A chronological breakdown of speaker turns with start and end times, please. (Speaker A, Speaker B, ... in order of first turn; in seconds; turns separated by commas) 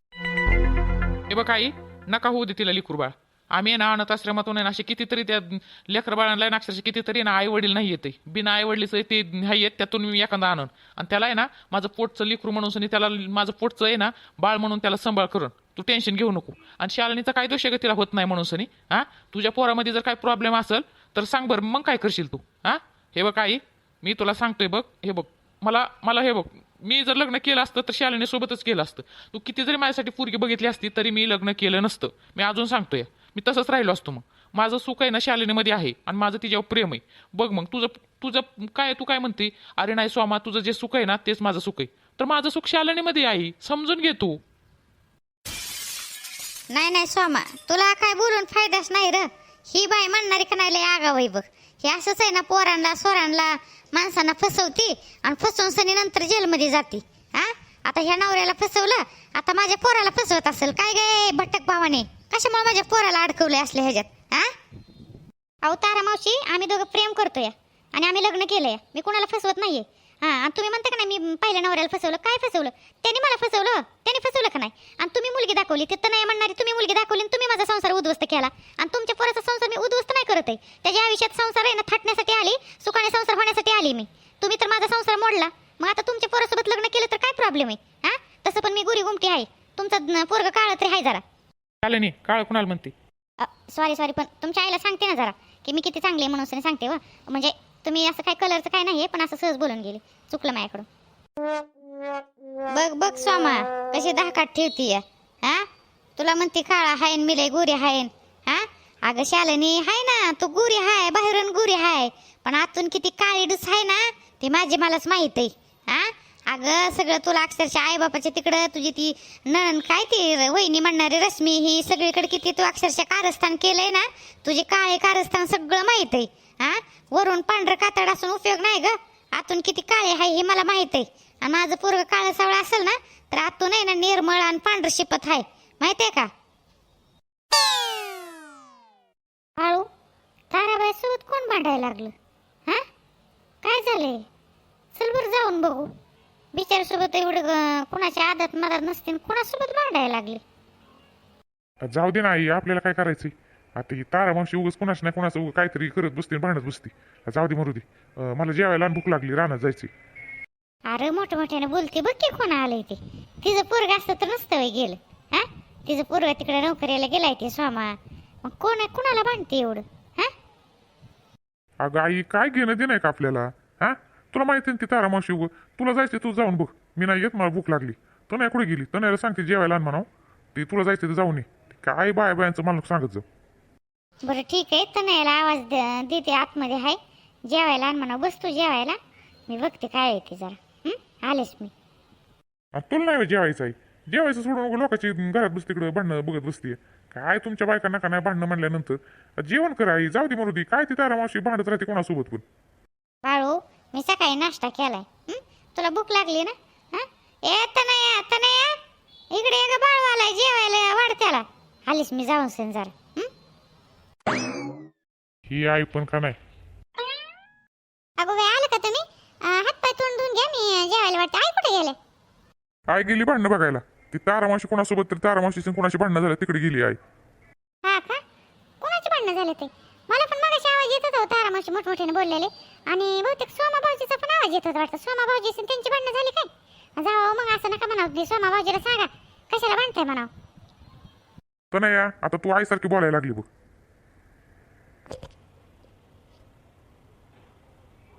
Speaker A: 1.3-44.4, Speaker B: 46.7-64.5, Speaker B: 65.6-91.2, Speaker A: 91.8-92.9, Speaker B: 93.4-100.9, Speaker B: 102.7-136.3, Speaker B: 139.6-139.9, Speaker B: 140.5-142.2, Speaker B: 143.6-144.2, Speaker B: 145.0-145.9, Speaker B: 146.5-150.4, Speaker C: 151.8-159.9, Speaker B: 160.9-170.3, Speaker C: 171.8-183.2, Speaker B: 184.2-189.0, Speaker B: 189.5-191.7, Speaker C: 192.8-202.4, Speaker B: 203.2-208.8, Speaker B: 209.3-213.3, Speaker C: 215.5-216.4, Speaker B: 218.2-222.0, Speaker C: 222.9-227.0, Speaker B: 227.8-228.2, Speaker B: 228.8-240.3, Speaker C: 241.7-243.5